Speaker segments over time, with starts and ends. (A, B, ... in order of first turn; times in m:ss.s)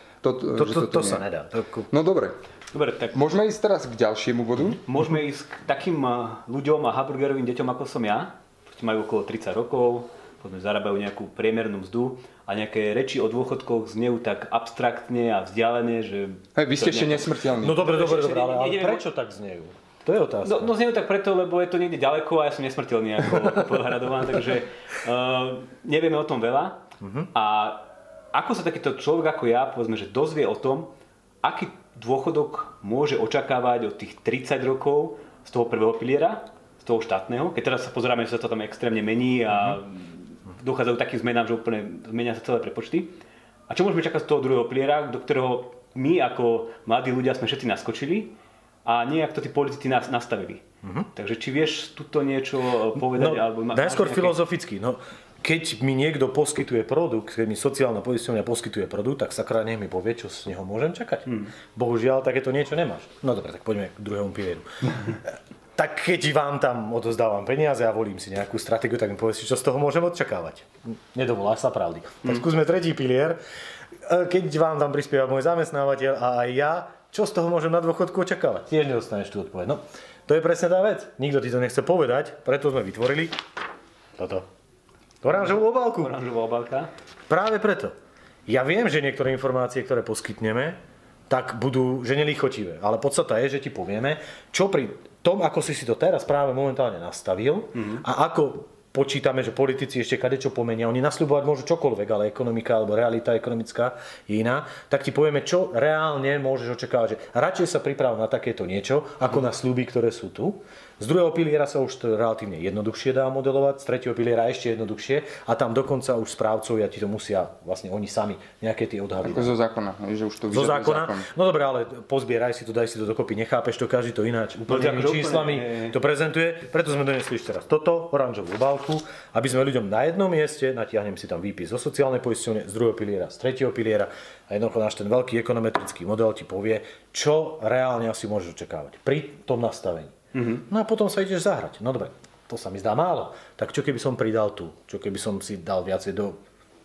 0:00.2-0:01.2 A
0:00.6-0:01.9 B
0:01.9-0:02.4 A
0:02.7-0:03.2 C
0:03.1-0:04.8 A
0:04.9-0:19.1 C
0:16.6-0:17.8 A
0:17.6-0:20.7 B
0:20.4-0:43.2 C
0:27.0-0:27.3 B
0:39.5-0:39.8 B
0:43.7-0:48.3 C
0:48.8-0:54.4 C
0:50.8-0:51.1 B
0:53.0-1:13.4 B
1:01.3-1:01.5 C
1:14.0-1:23.4 B
1:24.2-1:24.5 B
1:25.2-1:26.2 B
1:25.4-1:26.9 C
1:27.3-1:28.0 B
1:28.5-1:59.5 B
1:37.8-1:38.0 C
1:59.2-2:01.3 A
2:00.5-2:20.2 B
2:04.7-2:06.0 C
2:20.3-2:20.7 C
2:20.7-2:26.4 B